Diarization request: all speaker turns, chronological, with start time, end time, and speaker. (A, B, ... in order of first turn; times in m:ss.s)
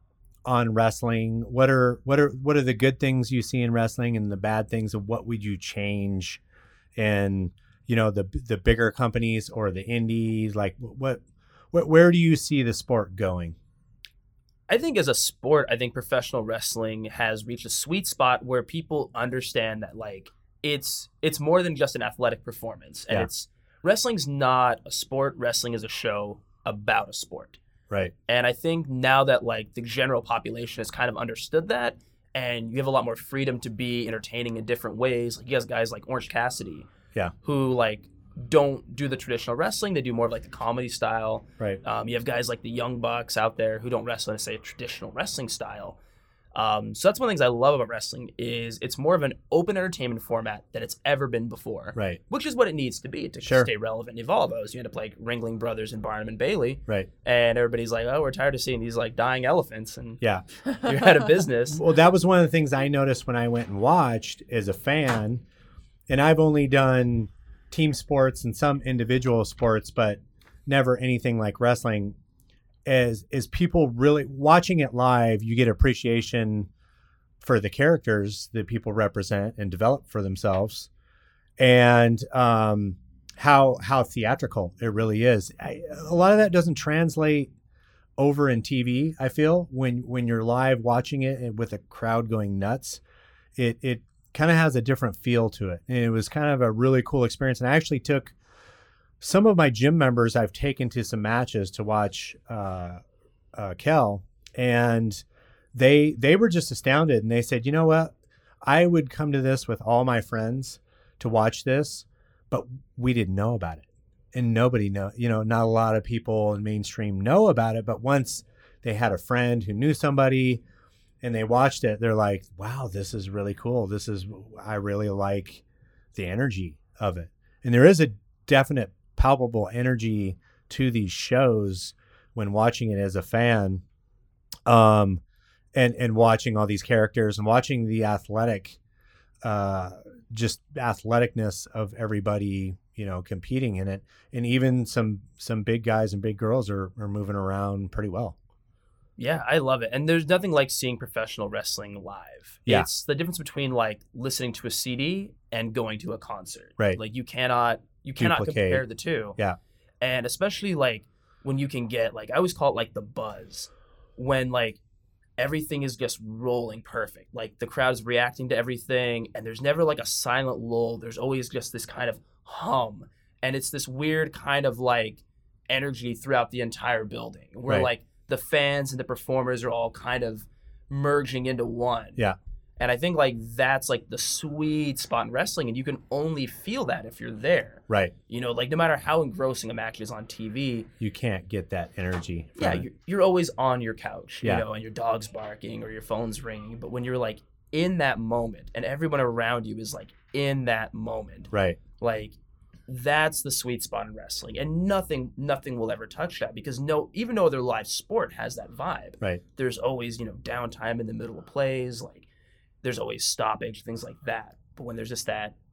0:00.4-0:06.4 A
0:07.0-0:13.6 A
0:14.7-0:27.6 B
0:28.3-0:36.9 B
0:37.4-0:46.0 B
0:46.5-1:00.2 B
0:51.9-0:52.2 A
0:53.4-0:53.7 A
1:00.8-1:01.8 B
1:01.7-1:05.4 A
1:06.1-1:12.2 A
1:12.8-1:16.7 A
1:17.4-1:20.9 A
1:21.6-1:27.5 A
1:28.2-1:33.0 A
1:33.6-1:38.3 A
1:39.2-1:43.0 A
1:43.5-1:48.1 A
1:48.6-2:00.6 A
2:01.2-2:05.6 A
2:06.1-2:13.8 A
2:14.6-2:15.2 A
2:15.7-2:18.8 A
2:19.4-2:28.4 A
2:29.2-2:39.4 B
2:38.2-2:38.8 A
2:40.0-2:44.8 B
2:45.4-3:02.2 B
3:02.8-3:10.9 B
3:11.0-3:12.8 A
3:12.6-3:22.3 B
3:21.5-3:21.8 A
3:22.9-3:32.3 B
3:32.8-3:35.5 B